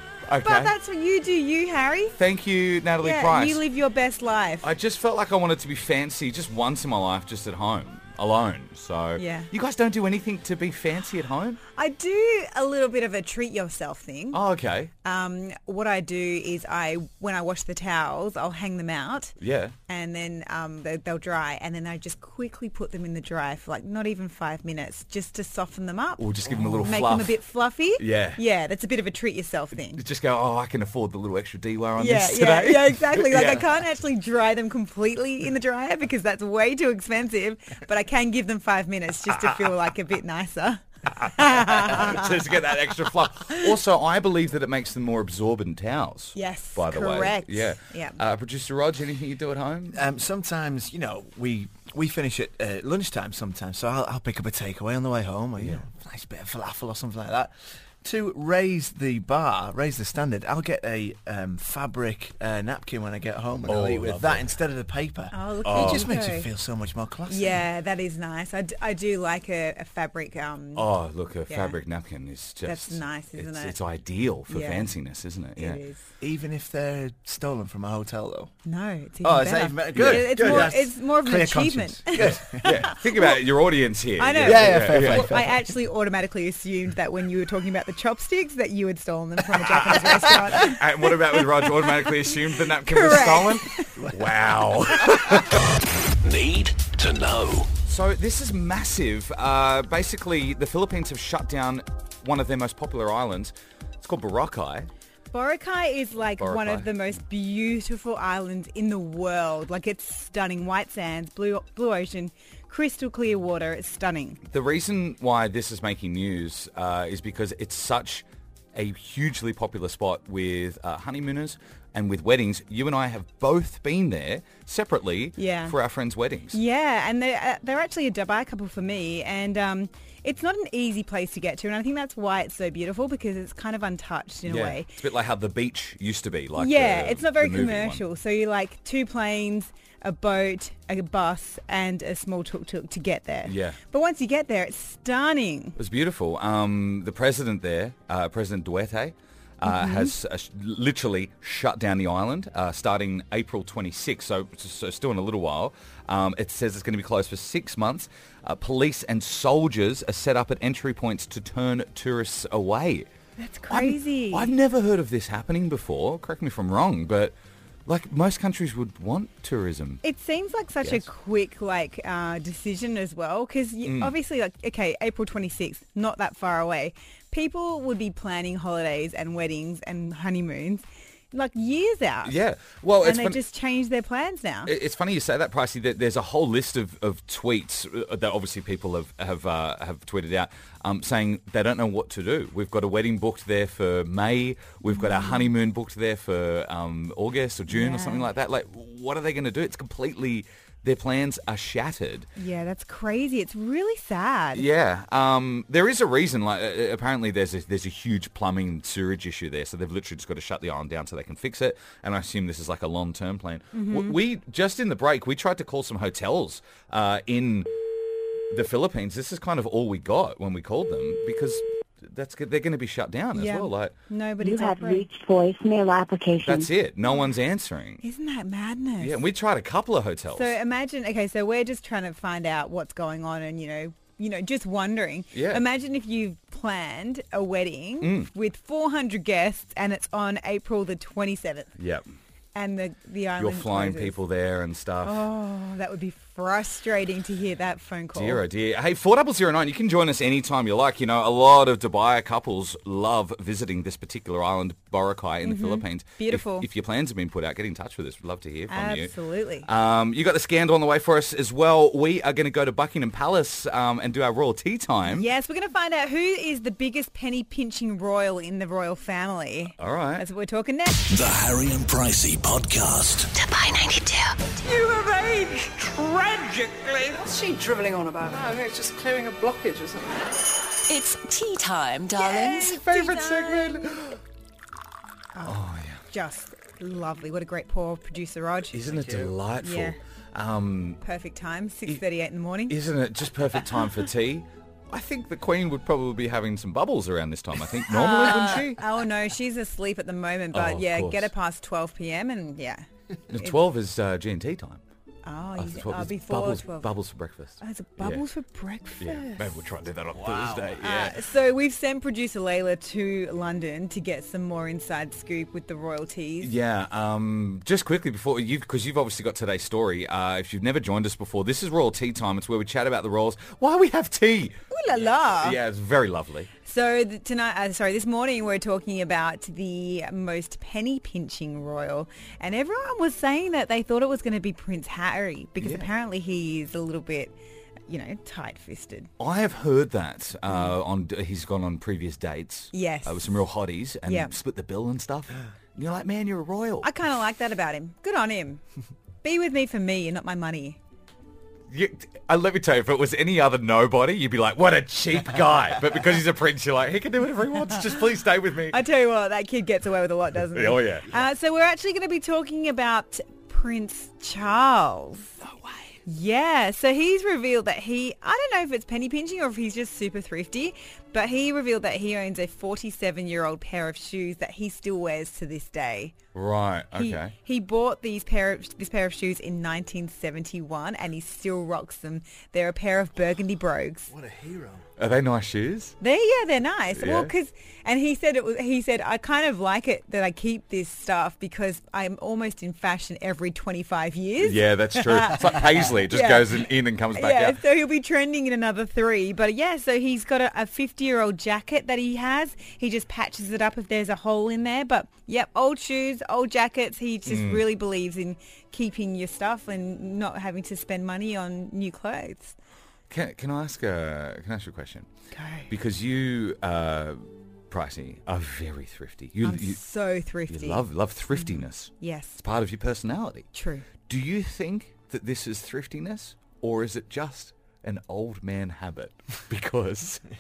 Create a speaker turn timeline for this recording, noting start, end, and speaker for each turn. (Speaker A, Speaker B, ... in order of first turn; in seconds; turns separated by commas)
Speaker A: 0.3-0.7, Speaker B: 0.4-2.2, Speaker A: 2.2-3.6, Speaker B: 3.0-4.7, Speaker A: 4.6-11.6, Speaker B: 9.2-9.5, Speaker B: 11.8-14.4, Speaker A: 14.3-14.9, Speaker B: 15.0-19.4, Speaker A: 19.4-19.8, Speaker B: 19.9-30.1, Speaker A: 26.2-27.4, Speaker A: 28.0-28.4, Speaker A: 29.9-33.7, Speaker B: 32.0-42.4, Speaker A: 41.1-50.0, Speaker B: 46.4-48.2, Speaker C: 50.0-67.6, Speaker A: 55.6-55.8, Speaker A: 63.7-64.5, Speaker B: 65.3-66.5, Speaker A: 65.7-66.1, Speaker B: 67.3-70.9, Speaker A: 70.8-75.8, Speaker B: 71.5-71.8, Speaker B: 72.7-73.8, Speaker B: 74.5-74.9, Speaker B: 75.6-76.1, Speaker C: 76.2-78.5, Speaker B: 78.7-83.4, Speaker C: 79.2-82.7, Speaker A: 79.9-80.8, Speaker A: 82.2-85.4, Speaker B: 84.2-94.0, Speaker C: 84.4-85.8, Speaker A: 89.8-95.6, Speaker D: 96.2-97.7, Speaker A: 97.9-104.9, Speaker B: 105.3-114.4, Speaker A: 106.4-107.2, Speaker A: 114.5-126.6, Speaker B: 125.4-125.8, Speaker B: 126.5-134.9, Speaker A: 134.4-138.1, Speaker B: 136.6-145.8, Speaker A: 143.4-143.8, Speaker A: 145.8-163.1, Speaker B: 149.6-150.2, Speaker B: 163.4-164.5, Speaker A: 163.7-167.3, Speaker A: 167.9-170.0, Speaker B: 170.0-182.4, Speaker A: 173.8-174.2, Speaker A: 182.2-183.4, Speaker B: 183.0-184.7, Speaker A: 184.7-202.3, Speaker B: 194.9-195.5, Speaker B: 197.7-198.3, Speaker B: 202.4-204.7, Speaker A: 204.5-217.7, Speaker B: 213.7-214.2, Speaker A: 218.5-223.9, Speaker B: 223.3-225.1, Speaker E: 224.4-226.7, Speaker A: 226.4-228.0, Speaker B: 228.0-229.2, Speaker A: 229.0-230.6, Speaker B: 230.3-241.7, Speaker A: 235.3-235.6, Speaker A: 238.0-238.3, Speaker A: 241.8-242.1, Speaker B: 242.6-244.2, Speaker A: 243.4-245.2, Speaker B: 245.0-248.4, Speaker A: 248.1-265.3, Speaker B: 255.4-256.7, Speaker B: 258.7-259.7, Speaker B: 265.1-270.9, Speaker A: 269.8-270.2, Speaker D: 271.0-273.3, Speaker F: 273.3-274.4, Speaker G: 274.6-280.2, Speaker F: 280.9-282.0, Speaker G: 282.0-283.6, Speaker B: 282.2-283.7, Speaker A: 282.6-284.2, Speaker B: 285.4-289.0, Speaker A: 285.4-286.0, Speaker A: 288.7-291.0, Speaker B: 289.6-290.0, Speaker B: 291.0-292.8, Speaker A: 292.7-298.8, Speaker B: 297.9-303.6, Speaker A: 300.5-301.3, Speaker A: 303.3-304.8, Speaker B: 305.2-306.9, Speaker A: 305.6-308.2, Speaker B: 307.6-309.6, Speaker A: 309.0-311.2, Speaker B: 310.8-316.5, Speaker A: 316.4-326.5, Speaker B: 324.7-325.6, Speaker B: 326.6-337.3, Speaker A: 335.6-335.9, Speaker B: 337.9-339.1, Speaker A: 339.2-346.9, Speaker B: 340.5-340.7, Speaker B: 342.7-343.4, Speaker B: 344.1-344.3, Speaker B: 346.8-348.6, Speaker B: 349.2-350.8, Speaker A: 351.7-358.8, Speaker B: 358.7-365.4, Speaker A: 360.5-361.2, Speaker A: 365.4-365.9, Speaker B: 366.1-376.1, Speaker A: 376.3-377.3, Speaker B: 376.9-384.1, Speaker C: 384.1-384.9, Speaker A: 385.0-386.0, Speaker B: 386.0-396.5, Speaker A: 386.9-387.3, Speaker A: 394.4-397.6, Speaker B: 397.1-412.6, Speaker A: 407.3-407.6, Speaker A: 413.1-415.1, Speaker B: 415.3-415.7, Speaker A: 415.7-419.8, Speaker B: 419.4-422.4, Speaker A: 420.5-423.5, Speaker B: 423.5-423.9, Speaker A: 424.0-430.2